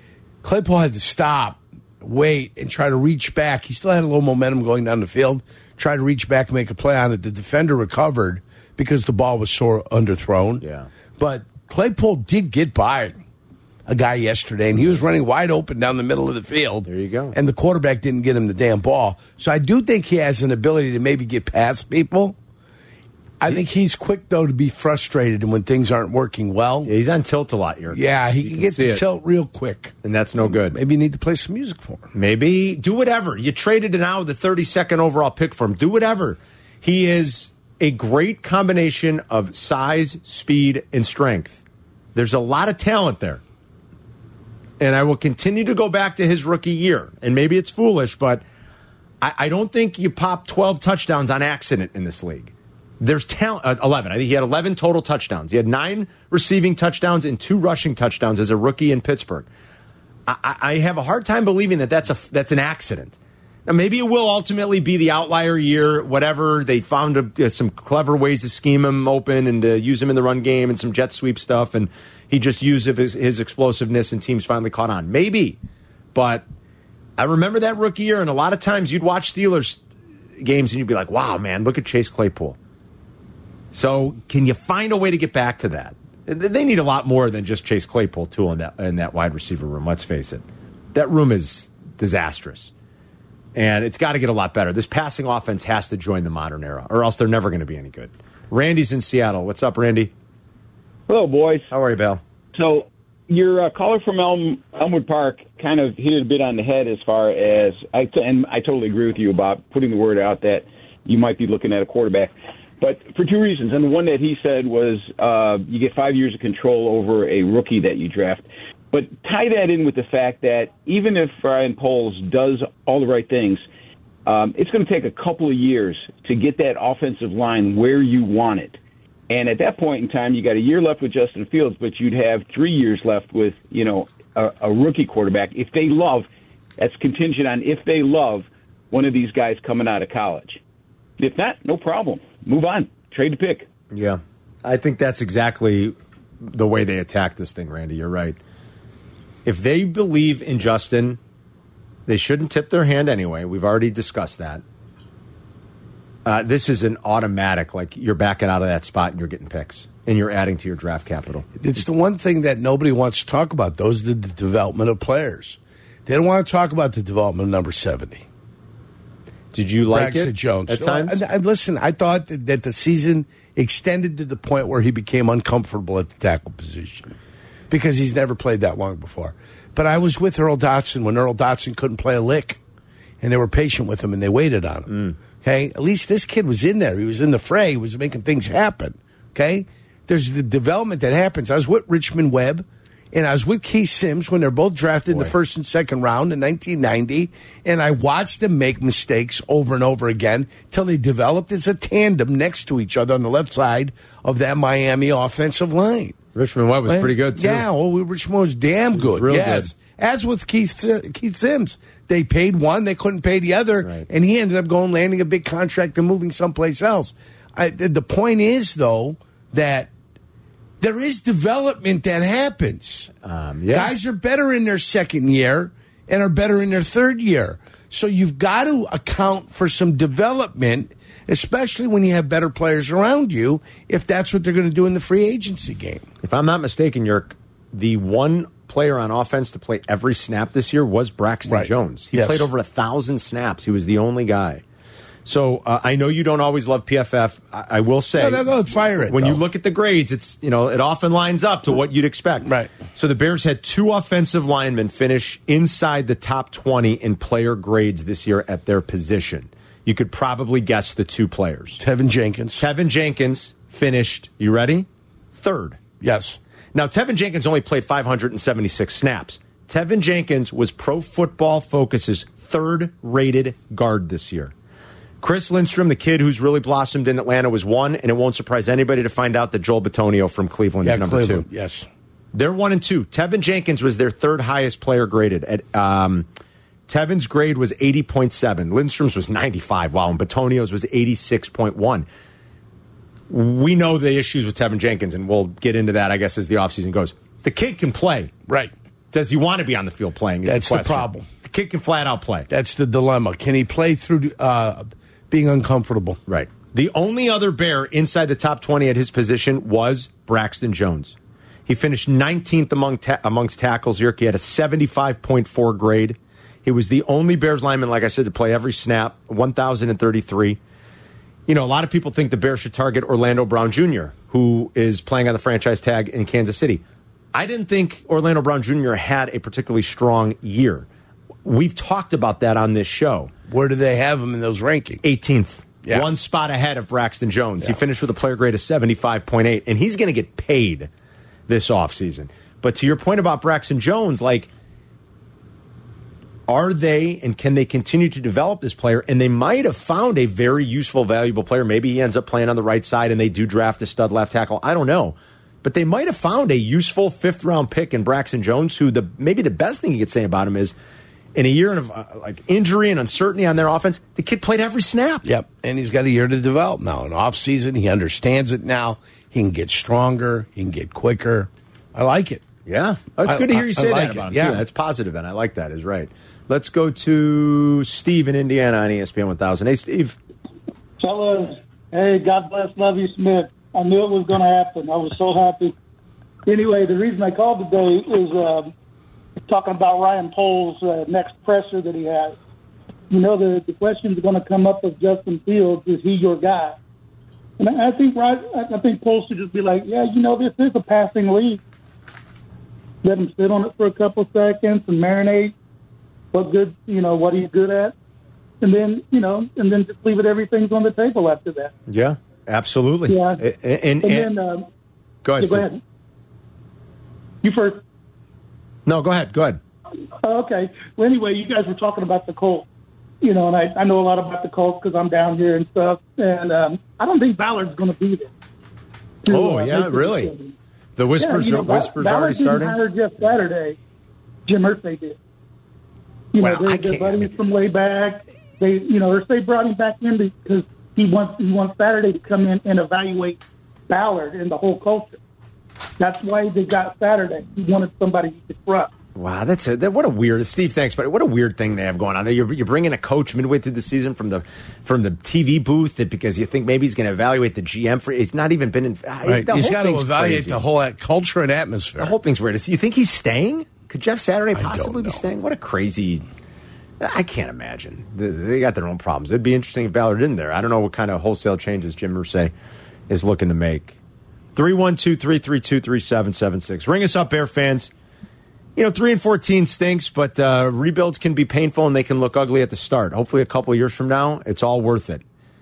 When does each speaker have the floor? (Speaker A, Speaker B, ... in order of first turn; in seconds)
Speaker A: 0.4-10.6, 11.2-13.2, 13.9-22.3, 23.4-26.9, 27.9-32.1, 161.6-168.2, 169.9-177.1, 177.7-182.6, 183.2-206.2, 206.8-219.9, 220.8-223.1, 223.7-236.1, 241.5-242.5, 248.1-249.4, 252.4-252.7, 261.8-262.6, 266.0-266.4, 280.8-281.9, 298.5-298.7, 300.4-301.3, 302.5-306.2, 333.5-335.0, 365.2-372.4, 373.2-374.6, 459.2-462.1, 464.5-465.2
Speaker B: 10.6-10.9, 16.9-17.3, 26.8-29.0, 30.0-30.8, 32.1-41.6, 42.1-43.4, 44.8-48.4, 49.2-59.5, 60.3-75.6, 76.1-76.4, 77.2-79.8, 80.4-82.6, 83.7-92.7, 93.5-100.1, 101.7-102.2, 143.9-148.4, 149.4-151.2, 152.1-154.6, 156.2-161.5, 169.5-171.2, 184.9-185.2, 206.3-207.7, 208.9-209.7, 223.2-223.9, 236.2-244.6, 245.2-261.8, 262.6-265.8, 266.7-274.5, 275.2-281.4, 282.3-286.3, 286.9-292.1, 293.3-298.3, 299.1-302.5, 306.3-311.1, 311.7-320.6, 321.5-326.8, 327.3-330.9, 331.4-333.3, 335.0-340.9, 341.5-344.5, 346.5-360.7, 361.3-365.2, 372.6-380.2, 411.9-414.3, 415.2-415.6, 418.9-419.6, 429.3-430.3, 430.9-432.8, 436.4-437.3, 449.1-460.6, 462.0-466.2, 467.0-472.5, 473.1-474.0, 474.5-477.9, 478.8-485.2
Speaker C: 101.1-101.7, 102.5-123.6, 124.2-140.6, 141.2-143.7
Speaker D: 381.0-385.7, 386.4-388.7, 389.5-392.4, 393.1-396.8, 397.6-401.6, 403.0-405.5, 406.3-407.9, 408.6-411.7, 413.1-413.4, 414.0-414.7, 415.4-415.8, 417.4-417.8, 420.2-422.6, 423.2-428.3, 429.2-430.5, 431.2-433.8, 434.5-435.2, 436.3-445.2, 446.0-448.9